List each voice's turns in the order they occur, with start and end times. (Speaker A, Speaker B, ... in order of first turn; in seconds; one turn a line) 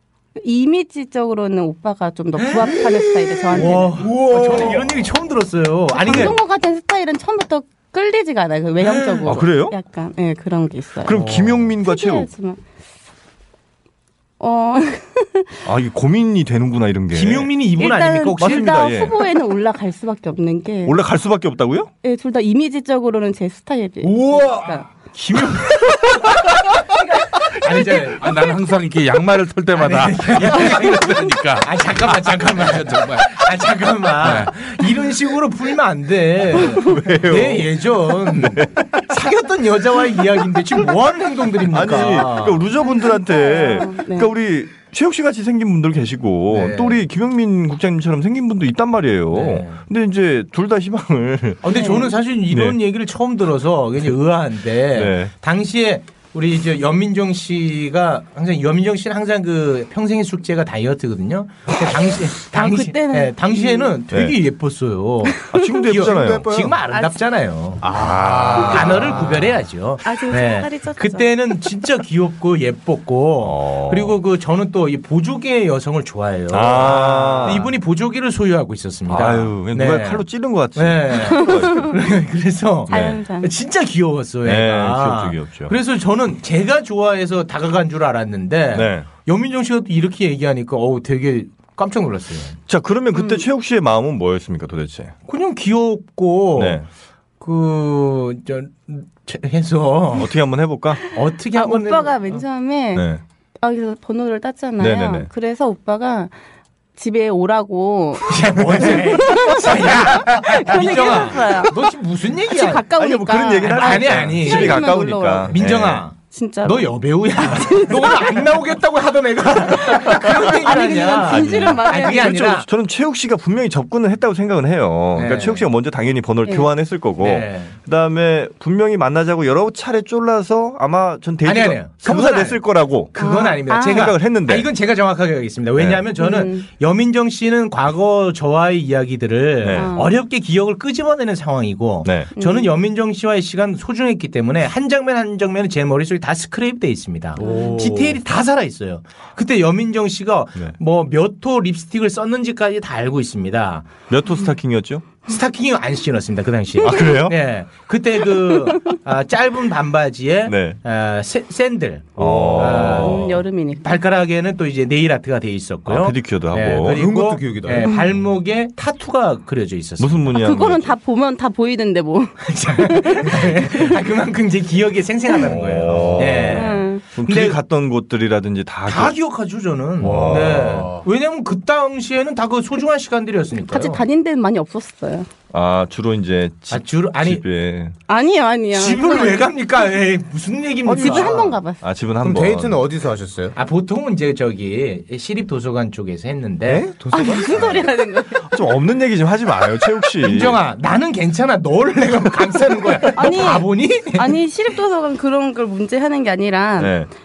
Speaker A: 0.4-4.1
Speaker B: 2.4-2.9
Speaker B: 3.5-6.4
Speaker C: 4.1-4.9
Speaker A: 6.0-12.6
Speaker C: 6.1-6.3
Speaker B: 8.8-9.4
Speaker C: 9.2-9.8
Speaker C: 11.0-12.3
Speaker A: 14.4-15.5
Speaker C: 15.6-17.5
Speaker B: 17.1-18.9
Speaker A: 17.8-21.0
Speaker C: 18.4-19.3
Speaker C: 20.8-21.9
Speaker A: 22.0-24.9
Speaker D: 24.0-24.7
Speaker B: 25.1-26.6
Speaker B: 27.5-28.2
Speaker D: 28.2-33.5
Speaker B: 29.8-42.6
Speaker D: 34.2-34.5
Speaker A: 36.6-37.0
Speaker C: 36.9-37.6
Speaker C: 41.7-51.6
Speaker A: 42.8-44.3
Speaker B: 46.5-47.0
Speaker B: 49.3-49.8
Speaker B: 51.6-92.6
Speaker A: 51.7-52.1
Speaker C: 52.5-52.8
Speaker C: 54.9-55.3
Speaker A: 62.5-64.0
Speaker C: 64.1-64.3
Speaker A: 65.2-65.9
Speaker C: 65.5-66.5
Speaker E: 66.0-66.8
Speaker A: 66.9-67.2
Speaker E: 67.8-69.4
Speaker C: 67.9-69.2
Speaker A: 70.0-71.7
Speaker C: 73.4-74.2
Speaker C: 76.5-77.7
Speaker C: 79.1-81.9
Speaker A: 81.3-81.9
Speaker A: 82.9-83.5
Speaker C: 82.9-83.2
Speaker C: 84.4-85.7
Speaker C: 88.7-89.1
Speaker C: 92.7-95.1
Speaker A: 93.1-93.5
Speaker B: 95.3-96.8
Speaker C: 96.5-96.8
Speaker B: 97.4-100.3
Speaker C: 100.2-101.0
Speaker B: 101.1-102.4
Speaker A: 101.5-103.1
Speaker C: 102.9-103.2
Speaker A: 103.6-106.3
Speaker C: 104.8-105.3
Speaker A: 107.0-111.9
Speaker B: 108.3-112.8
Speaker A: 112.5-115.5
Speaker C: 112.9-116.0
Speaker B: 113.7-114.9
Speaker B: 115.5-122.7
Speaker A: 116.2-118.5
Speaker A: 119.7-122.5
Speaker C: 121.2-134.7
Speaker B: 125.1-125.6
Speaker A: 126.4-126.7
Speaker B: 127.2-127.8
Speaker B: 131.4-153.9
Speaker A: 133.2-134.2
Speaker C: 135.8-136.1
Speaker A: 136.2-136.7
Speaker C: 139.6-139.9
Speaker A: 139.7-140.1
Speaker C: 142.0-142.3
Speaker A: 142.3-142.7
Speaker A: 147.4-147.9
Speaker E: 147.4-148.1
Speaker C: 154.1-155.0
Speaker B: 155.2-170.3
Speaker C: 156.8-157.4
Speaker A: 156.8-157.1
Speaker A: 158.7-158.9
Speaker C: 160.4-160.8
Speaker C: 162.2-163.4
Speaker A: 162.8-164.0
Speaker C: 165.9-167.1
Speaker E: 166.9-167.9
Speaker C: 170.0-170.9
Speaker A: 170.3-174.0
Speaker B: 172.4-177.6
Speaker C: 175.3-179.1
Speaker A: 176.4-177.0
Speaker B: 178.8-184.0
Speaker C: 180.0-180.9
Speaker E: 180.0-181.0
Speaker A: 183.7-185.3
Speaker C: 185.5-187.9
Speaker B: 186.7-187.4
Speaker A: 188.1-189.5
Speaker B: 188.7-191.5
Speaker C: 190.8-192.8
Speaker A: 190.9-191.8
Speaker E: 192.2-193.5
Speaker B: 193.6-196.9
Speaker E: 196.7-197.8
Speaker A: 197.1-198.5
Speaker C: 197.3-197.7
Speaker C: 198.5-200.6
Speaker B: 200.2-204.4
Speaker A: 203.2-207.0
Speaker C: 206.8-207.1